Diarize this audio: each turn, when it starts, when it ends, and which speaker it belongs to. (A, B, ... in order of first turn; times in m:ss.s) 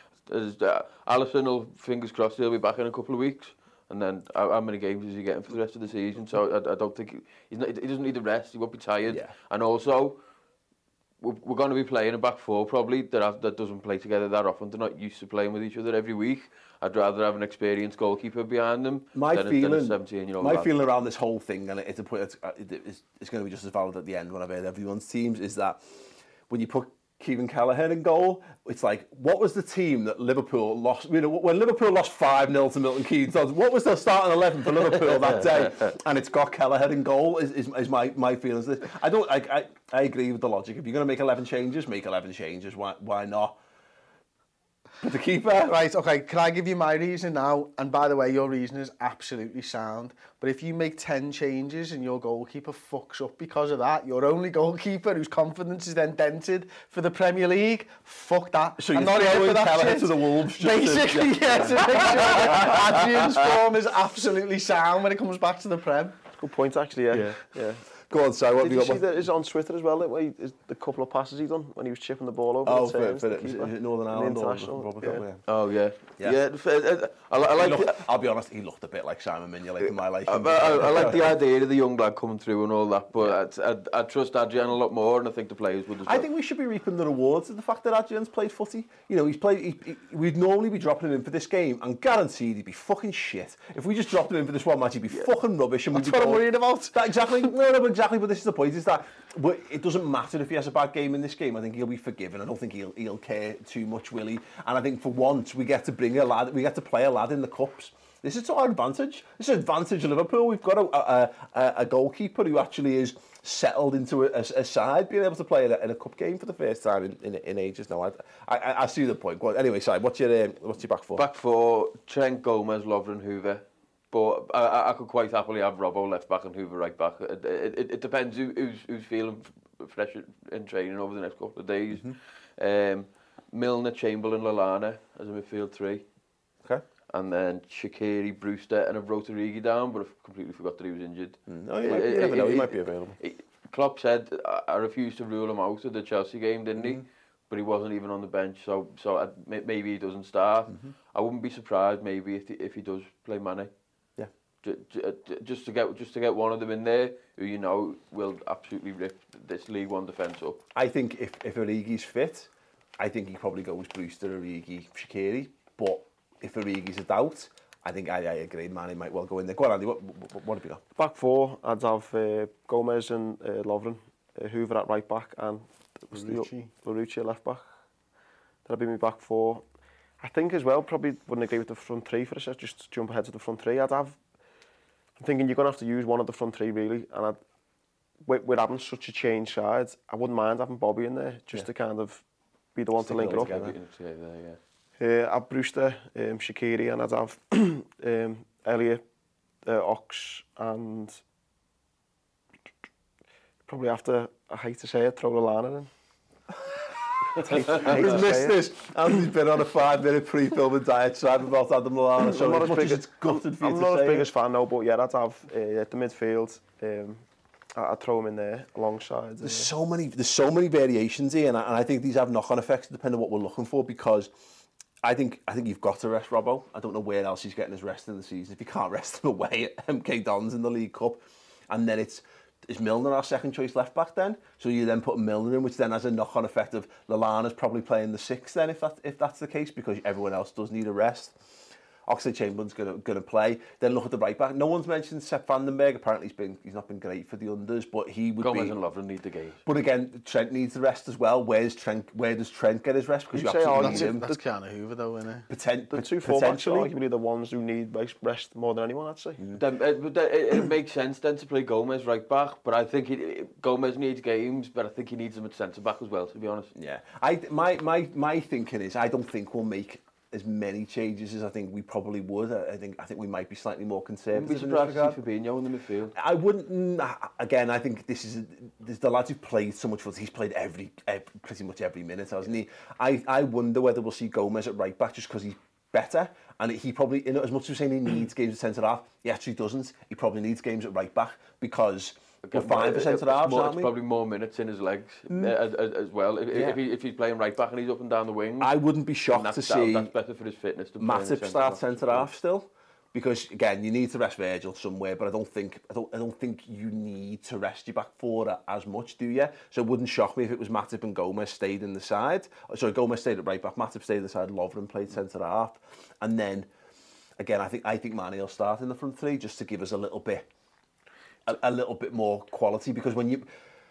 0:00.2-0:10.2 A
0:09.1-0:09.3 B
0:11.2-0:20.8 A
0:19.1-0:43.6 B
0:45.0-0:45.8 B
0:45.6-1:06.2 C
0:58.8-1:03.3 B
1:06.4-1:07.8 D
1:07.1-1:07.4 B
1:08.1-1:09.0 B
1:08.6-1:15.2 D
1:12.6-1:15.4 B
1:15.5-1:18.0 A
1:17.6-1:21.4 B
1:19.9-1:26.3 A
1:26.1-2:01.3 B
1:35.9-1:37.0 C
2:01.2-2:16.0 A
2:11.9-2:12.2 B
2:17.1-2:33.7 A
2:21.5-2:23.2 B
2:26.8-2:27.0 B
2:34.6-2:40.6 A
2:40.8-2:50.8 B
2:51.0-2:57.7 D
2:56.1-2:56.7 C
2:58.6-2:59.6 D
3:00.2-3:04.2 D
3:05.2-3:07.4 D
3:08.2-3:12.2 D
3:12.8-3:13.6 D
3:13.0-3:13.8 B
3:13.1-3:14.6 A
3:15.0-3:19.0 D
3:19.6-3:21.2 D
3:23.7-3:25.9 D
3:27.4-3:28.6 D
3:27.4-3:34.3 B
3:32.2-3:37.2 D
3:37.8-3:39.7 D
3:39.4-3:44.3 B
3:45.0-4:01.4 B
4:02.1-4:08.8 B
4:08.4-4:09.6 A
4:09.6-4:14.3 B
4:13.3-4:14.4 D
4:13.8-4:15.5 C
4:15.5-4:16.9 B
4:15.9-4:19.4 D
4:19.5-4:26.7 A
4:26.8-4:35.2 B
4:34.3-4:36.1 A
4:36.1-4:53.9 B
4:52.4-4:58.7 A
4:55.3-4:55.6 B
4:56.5-4:56.8 B
4:58.6-5:00.1 B
4:59.3-5:02.3 A
5:01.0-5:16.7 B
5:17.4-5:20.5 B
5:21.5-5:23.5 B